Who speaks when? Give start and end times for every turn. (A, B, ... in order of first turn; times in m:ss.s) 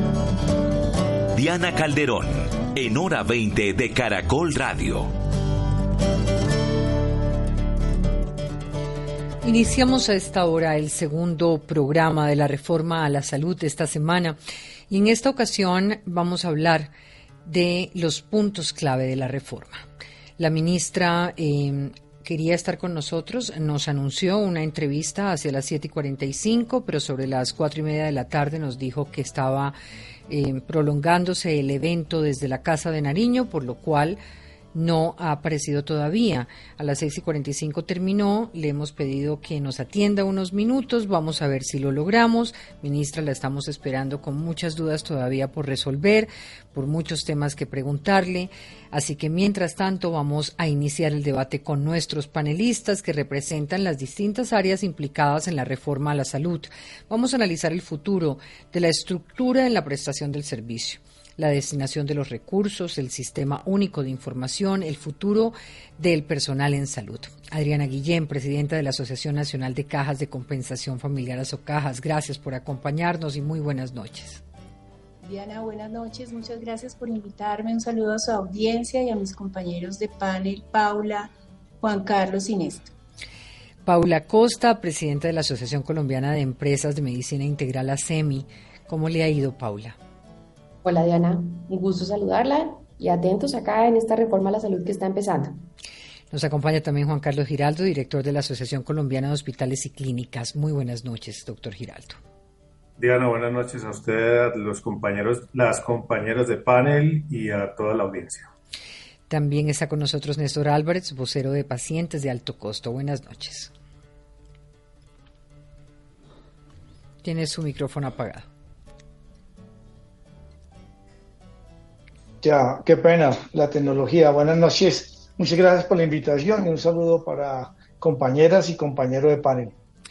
0:01.3-0:05.1 A
0:09.4-0:14.4 B
0:14.9-0:16.9 B
0:17.4-0:19.8 B
0:20.4-0:29.7 B
0:30.3-0:34.2 B
0:34.7-1:14.4 B
1:15.2-1:22.9 C
1:23.8-1:30.0 B
1:30.8-1:35.6 D
1:36.3-1:42.2 B
1:43.0-1:48.5 E
1:49.3-1:53.7 B
1:57.2-1:58.4 B
2:02.4-2:09.7 F